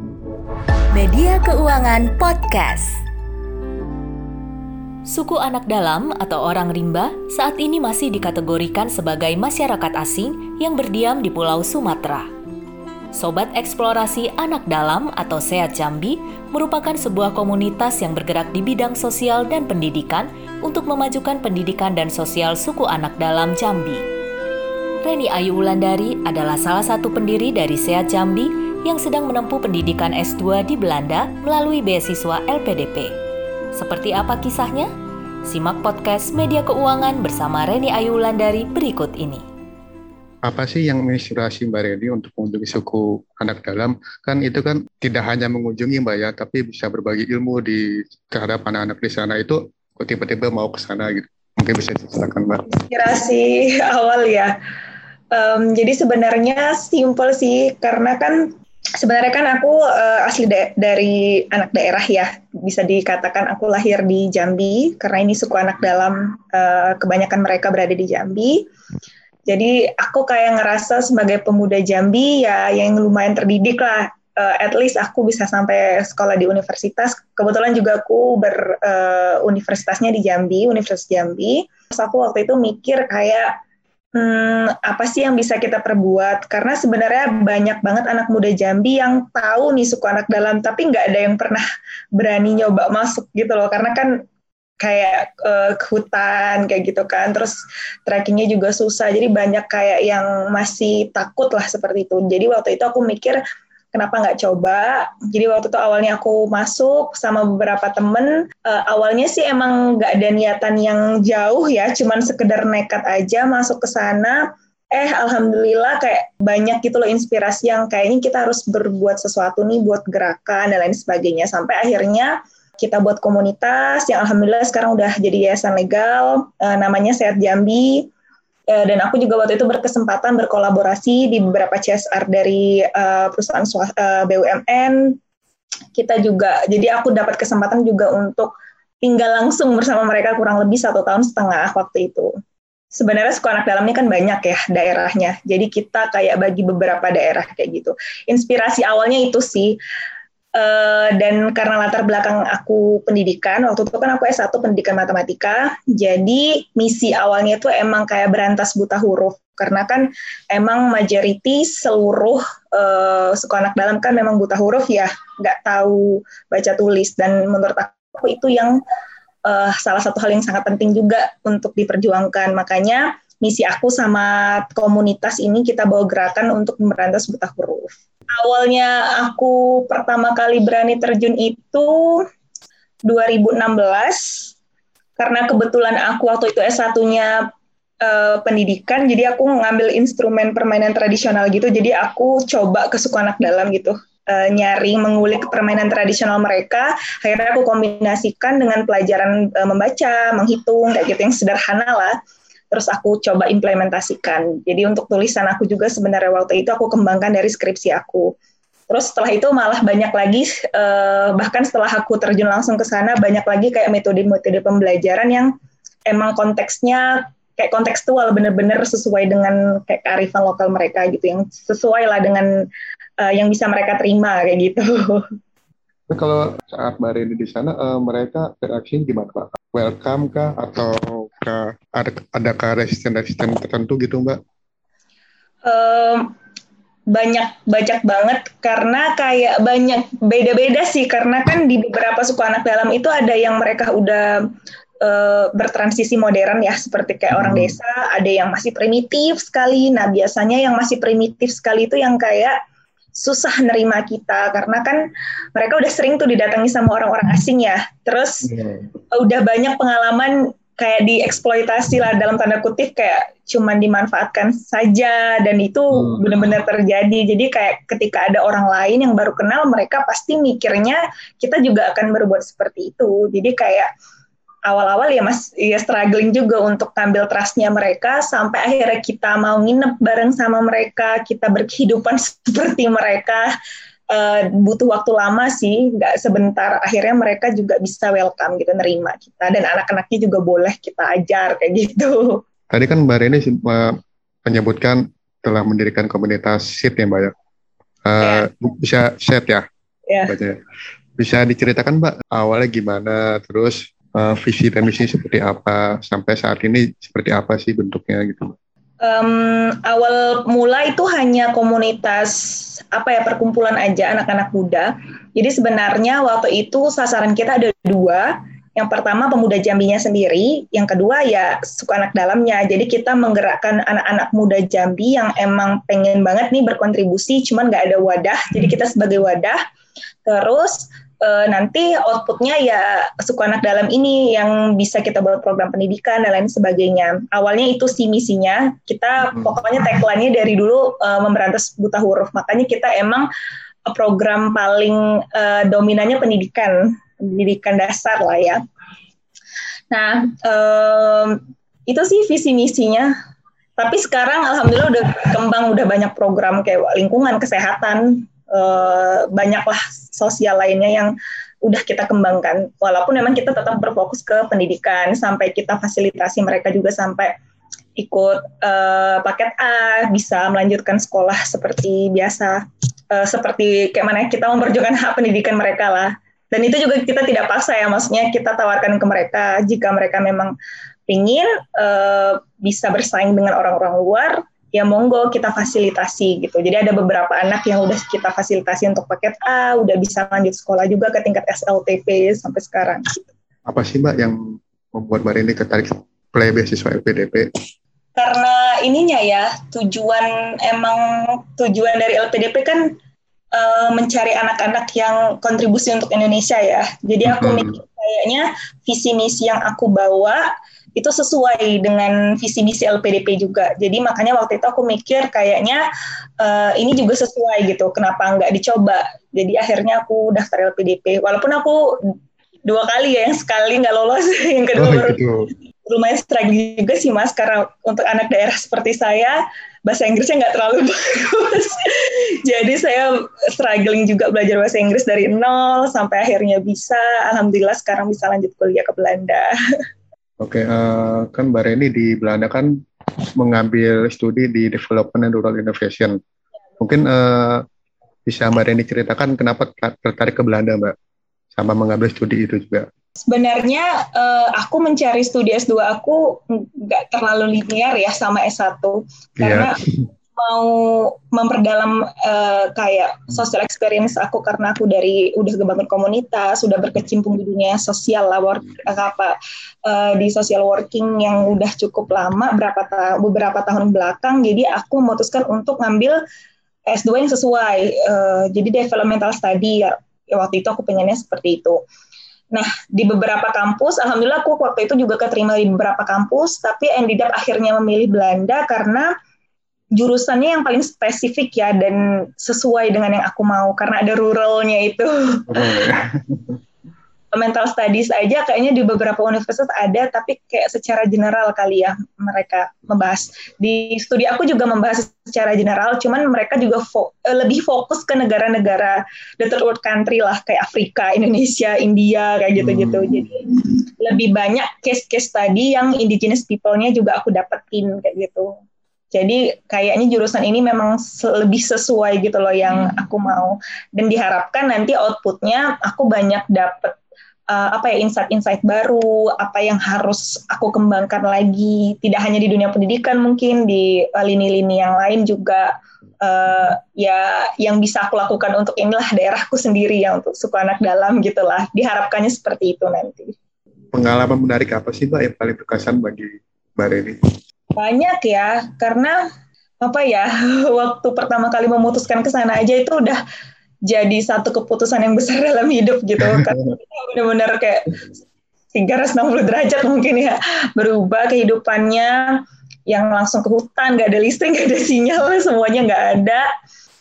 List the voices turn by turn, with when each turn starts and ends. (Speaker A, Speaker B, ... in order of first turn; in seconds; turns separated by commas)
Speaker A: 0.9-3.0, Speaker A: 5.1-12.3, Speaker A: 13.2-24.0, Speaker A: 25.0-33.1, Speaker A: 33.8-34.9, Speaker A: 35.5-39.4, Speaker B: 40.4-52.7, Speaker C: 52.7-54.5, Speaker C: 55.3-68.7, Speaker C: 69.5-83.5, Speaker C: 84.2-91.7, Speaker C: 92.2-94.2, Speaker C: 94.8-103.4, Speaker C: 103.9-128.1, Speaker C: 128.7-135.2, Speaker C: 135.9-138.5, Speaker C: 139.0-142.3, Speaker C: 142.9-149.8, Speaker C: 150.6-168.8, Speaker C: 169.4-182.2, Speaker C: 183.1-184.5, Speaker C: 185.2-187.4, Speaker C: 188.0-202.2, Speaker C: 202.7-208.3, Speaker C: 208.9-215.5, Speaker C: 216.1-222.5, Speaker C: 223.2-225.2, Speaker B: 226.1-234.4, Speaker C: 235.7-236.3, Speaker C: 237.1-244.3, Speaker C: 245.0-252.6, Speaker B: 247.3-247.8, Speaker C: 253.1-258.5, Speaker B: 258.5-258.9, Speaker C: 259.1-273.9, Speaker C: 274.7-283.5, Speaker C: 284.1-292.4, Speaker B: 292.7-293.9, Speaker B: 294.4-297.3, Speaker B: 298.1-299.6, Speaker C: 298.2-298.5, Speaker B: 300.3-300.6, Speaker B: 301.2-308.5, Speaker C: 309.0-312.4, Speaker C: 312.9-329.6, Speaker C: 330.2-343.3, Speaker C: 343.9-348.6, Speaker C: 349.9-353.1, Speaker C: 353.8-367.4, Speaker C: 368.0-380.5, Speaker C: 381.1-393.3, Speaker B: 393.7-394.4, Speaker B: 394.9-397.5, Speaker C: 398.2-402.9, Speaker C: 403.5-410.4, Speaker B: 407.2-407.7, Speaker C: 411.0-415.8, Speaker C: 416.4-421.9, Speaker C: 422.7-425.2, Speaker B: 424.8-425.5, Speaker C: 425.9-439.5, Speaker B: 440.4-442.7, Speaker B: 443.4-446.2, Speaker B: 446.8-447.6, Speaker B: 448.3-450.9, Speaker B: 451.5-452.9, Speaker C: 453.3-459.8, Speaker B: 459.4-459.7, Speaker C: 460.4-476.2, Speaker C: 476.9-481.8, Speaker C: 482.5-489.1, Speaker C: 490.0-495.8, Speaker B: 495.5-496.6, Speaker C: 497.3-518.5, Speaker B: 512.6-513.2, Speaker C: 519.1-527.0, Speaker C: 527.5-543.4, Speaker B: 543.9-547.2, Speaker C: 547.8-549.2, Speaker C: 549.8-553.2, Speaker C: 553.9-558.0, Speaker C: 558.7-566.5